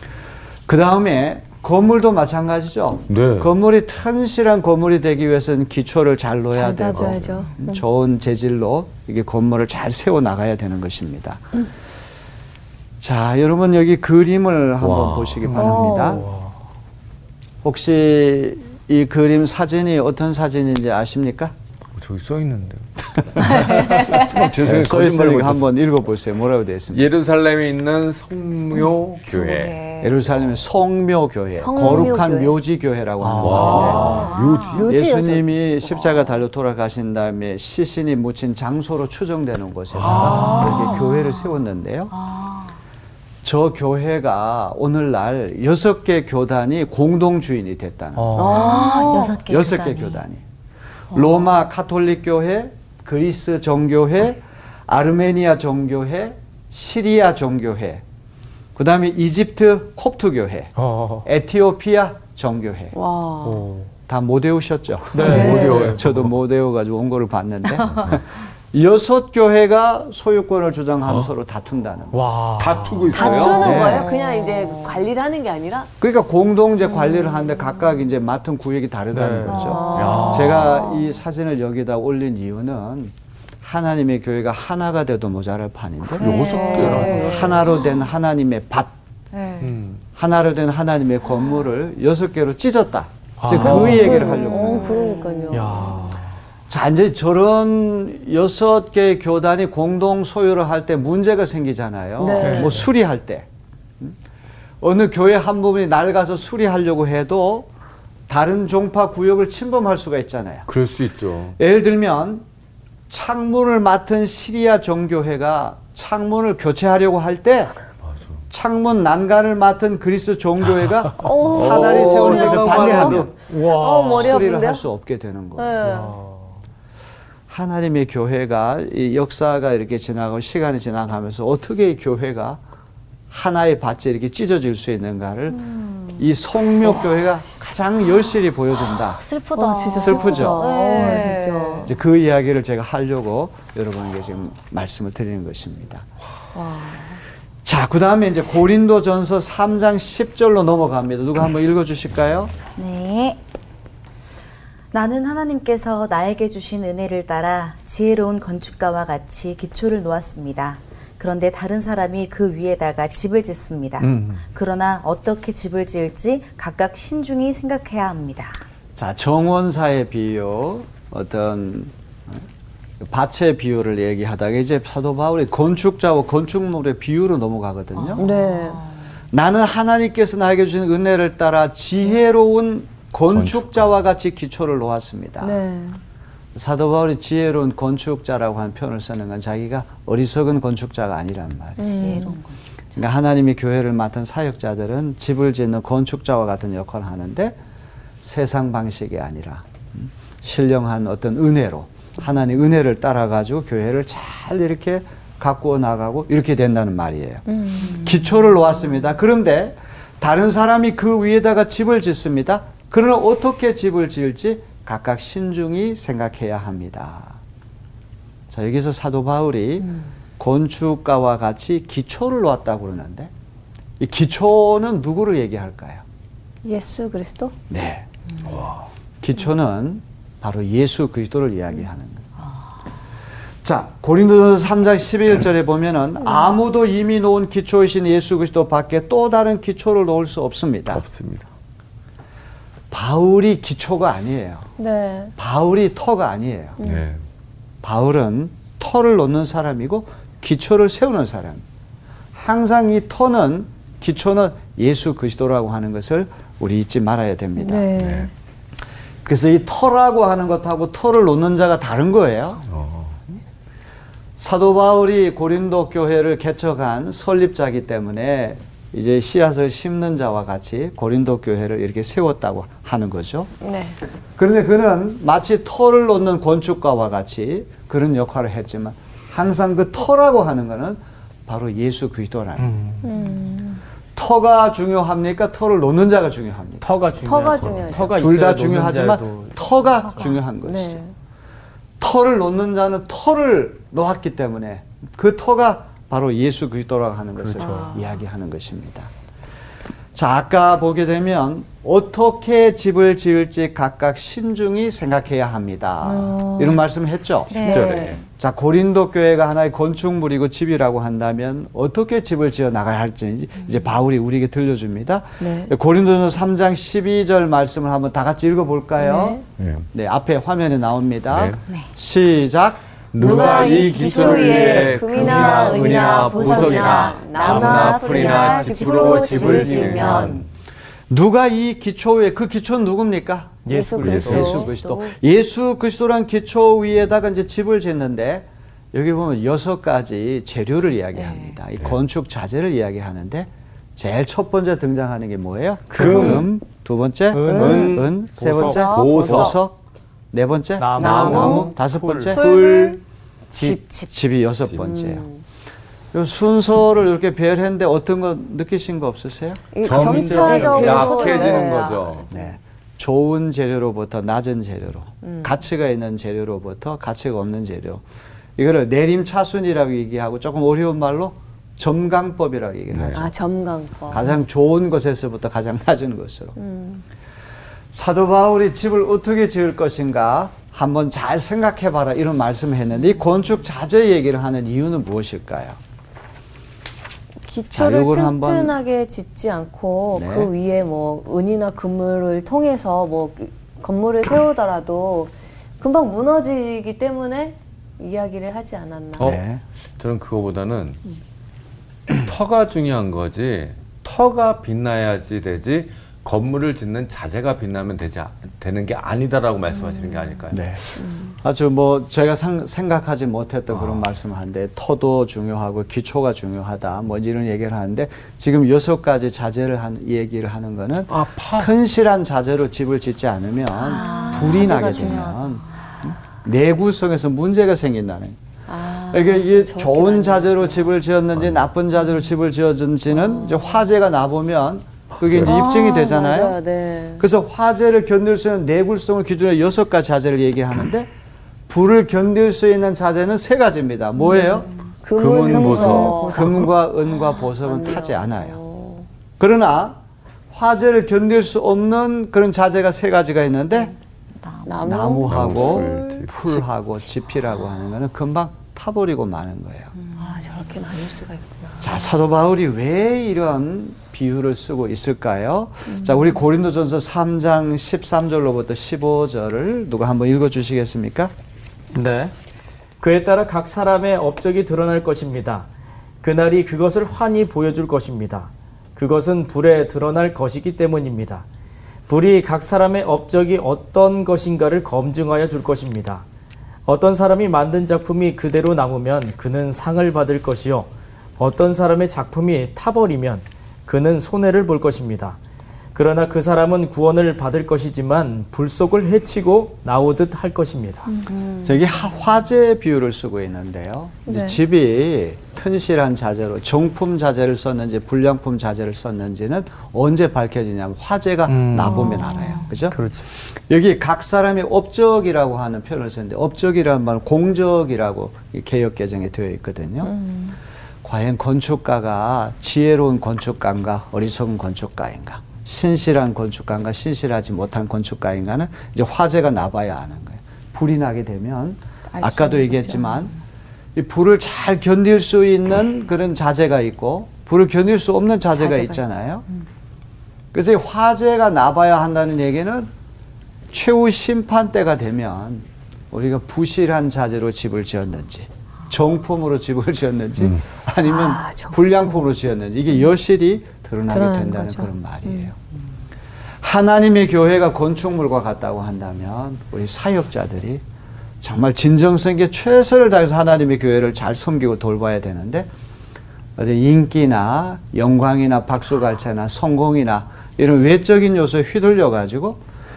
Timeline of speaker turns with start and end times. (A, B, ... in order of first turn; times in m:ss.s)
0:00.7-0:11.5 A
0:03.1-0:03.5 B
0:06.6-0:07.8 C
0:13.0-0:16.2 A
0:14.8-0:15.8 B
0:15.5-0:16.5 D
0:15.6-0:16.2 C
0:17.6-0:21.5 A
0:22.0-0:25.7 B
0:23.4-0:23.7 A
0:23.8-0:24.3 E
0:24.4-0:27.1 A
0:26.9-0:29.8 B
0:29.3-0:30.1 E
0:30.0-0:34.3 A
0:31.6-0:32.5 C
0:33.2-0:34.0 D
0:33.4-0:34.9 B
0:33.8-0:36.0 C
0:33.8-0:34.8 E
0:34.9-0:42.1 A
0:40.0-0:40.7 B
0:40.0-0:40.7 D
0:40.2-0:41.4 E
0:40.3-0:41.0 C
0:42.1-0:42.8 E
0:43.4-0:50.4 A
0:48.2-0:48.8 D
0:48.4-0:49.4 C
0:48.5-0:50.2 E
0:51.1-0:58.0 A
0:58.8-1:00.7 A
1:00.8-1:01.3 D
1:01.2-1:03.0 A
1:02.9-1:03.6 C
1:03.4-1:03.9 D
1:04.1-1:12.2 A
1:05.1-1:06.3 D
1:05.2-1:06.2 B
1:05.2-1:05.9 C
1:12.1-1:13.4 D
1:12.6-1:14.0 B
1:13.1-1:15.9 C
1:13.4-1:14.1 A
1:14.0-1:14.9 E
1:16.0-1:28.9 A
1:19.1-1:19.6 D
1:19.5-1:20.8 E
1:19.5-1:21.0 C
1:19.9-1:20.8 B
1:26.1-1:27.8 E
1:26.2-1:27.4 B
1:26.2-1:27.6 C
1:26.7-1:27.2 D
1:29.3-1:29.7 E
1:29.6-1:30.0 B
1:30.2-1:35.0 A
1:33.4-1:34.3 D
1:33.5-1:35.9 C
1:33.8-1:35.6 E
1:35.5-1:36.3 D
1:36.7-1:43.5 A
1:42.2-1:42.8 C
1:42.4-1:42.9 D
1:44.8-1:47.7 A
1:48.3-1:50.7 A
1:50.7-1:51.6 B
1:51.6-1:52.4 A
1:53.1-1:57.7 A
1:58.1-1:58.4 B
1:58.5-2:03.4 A
2:01.2-2:04.8 C
2:01.4-2:03.3 B
2:03.4-2:04.4 D
2:04.1-2:05.8 A
2:05.6-2:06.1 C
2:05.8-2:06.6 D
2:07.5-2:12.6 A
2:13.3-2:19.2 A
2:15.5-2:16.2 E
2:18.9-2:21.9 E
2:19.6-2:21.9 C
2:20.0-2:20.7 A
2:21.8-2:26.1 A
2:26.6-2:27.2 C
2:27.6-2:32.5 A
2:32.8-2:33.4 E
2:34.9-2:48.6 E
2:44.0-2:44.4 B
2:49.0-2:52.4 A
2:53.0-2:58.3 A
2:58.0-2:59.0 E
2:58.2-2:58.8 C
2:59.3-3:05.6 A
3:03.3-3:03.9 B
3:05.4-3:06.0 C
3:06.6-3:12.1 A
3:11.8-3:12.6 E
3:11.8-3:12.4 C
3:13.0-3:17.6 A
3:18.2-3:37.4 A
3:27.5-3:28.0 C
3:38.5-3:43.3 A
3:44.0-3:46.0 A
3:46.6-3:47.5 C
3:47.7-3:48.1 A
3:48.4-3:48.8 B
3:49.2-3:52.2 A
3:53.6-4:01.0 A
4:00.9-4:01.5 B
4:02.9-4:04.7 A
4:04.8-4:05.3 C
4:05.4-4:06.8 A
4:06.8-4:07.2 B
4:06.8-4:07.1 C
4:07.8-4:11.6 A
4:12.3-4:17.9 A
4:17.6-4:18.3 C
4:18.0-4:18.3 B
4:19.2-4:22.6 A
4:22.7-4:23.2 B
4:24.4-4:33.5 A
4:33.6-4:34.0 C
4:34.4-4:42.8 A
4:42.6-4:43.1 D
4:43.0-4:43.8 C
4:44.2-4:46.9 A
4:46.8-4:49.6 D
4:47.2-4:48.2 C
4:47.6-4:47.9 B
4:48.0-4:51.0 A
4:50.6-4:51.1 C
4:52.0-4:59.1 A
4:57.4-4:58.0 D
5:00.1-5:22.8 A
5:06.0-5:06.8 C
5:07.5-5:08.2 E
5:07.6-5:08.2 C
5:07.6-5:08.2 B
5:15.4-5:15.7 C
5:19.0-5:19.4 C
5:19.6-5:19.8 B
5:21.3-5:21.6 B
5:23.1-5:30.5 B
5:23.2-5:30.4 C
5:23.2-5:30.4 E
5:31.1-5:49.8 A
5:33.6-5:34.7 D
5:33.7-5:34.8 C
5:34.0-5:34.6 B
5:34.4-5:35.1 E
5:41.1-5:41.6 E
5:45.9-5:46.5 B
5:46.0-5:46.4 C
5:46.0-5:46.3 D
5:47.3-5:48.9 D
5:47.5-5:48.0 C
5:47.5-5:49.6 B
5:48.7-5:49.5 C
5:50.3-5:53.0 A
5:50.8-5:52.4 D
5:51.0-5:51.7 C
5:51.0-5:51.7 B
5:52.3-5:53.0 E
5:53.5-5:54.1 E
5:53.5-5:55.3 A
5:54.8-5:55.4 C
5:56.1-5:59.8 A
5:59.8-6:02.3 C
5:59.8-6:02.3 B
5:59.9-6:01.9 E
6:02.3-6:08.0 A
6:05.2-6:05.5 C
6:08.6-6:13.3 A
6:12.9-6:13.2 B
6:13.1-6:14.3 C
6:14.1-6:16.6 A
6:16.6-6:17.0 C
6:17.9-6:25.8 A
6:27.5-6:39.4 C
6:27.7-6:28.8 A
6:30.1-6:30.5 A
6:39.2-6:39.4 B
6:39.2-6:39.6 A
6:40.0-6:41.0 B
6:42.1-6:50.8 B
6:50.5-7:08.4 A
6:51.0-6:51.3 C
6:53.8-6:54.0 B
7:01.1-7:01.7 B
7:03.8-7:05.6 E
7:03.8-7:05.1 C
7:08.7-7:10.9 C
7:09.1-7:16.6 A
7:13.4-7:13.8 C
7:15.2-7:15.6 B
7:15.4-7:17.2 C
7:17.2-7:21.1 A
7:21.7-7:24.7 A
7:24.3-7:26.7 C
7:25.2-7:26.5 B
7:25.5-7:26.7 E
7:26.3-7:28.6 A
7:27.6-7:29.1 C
7:29.4-7:30.0 A
7:30.5-7:33.9 A
7:34.4-7:35.0 E
7:34.7-7:36.2 C
7:34.8-7:39.9 A
7:35.3-7:36.6 B
7:40.2-7:42.0 C
7:40.2-7:40.5 E
7:41.8-7:51.3 A
7:51.9-7:52.3 D
7:53.0-7:55.7 D
7:56.2-8:01.5 D
8:02.1-8:06.2 D
8:06.9-8:15.4 D
8:16.0-8:21.1 D
8:21.3-8:21.6 E
8:21.6-8:40.1 A
8:24.3-8:24.6 C
8:31.5-8:32.2 D
8:32.2-8:32.6 E
8:32.9-8:33.3 D
8:40.0-8:40.6 C
8:41.0-8:53.3 A
8:52.1-8:53.3 C
8:54.0-8:59.4 A
8:58.6-8:59.1 C
9:00.5-9:02.9 A
9:03.7-9:15.6 A
9:11.0-9:12.2 C
9:14.1-9:15.5 C
9:16.6-9:20.8 A
9:21.4-9:25.7 A
9:26.6-9:32.6 A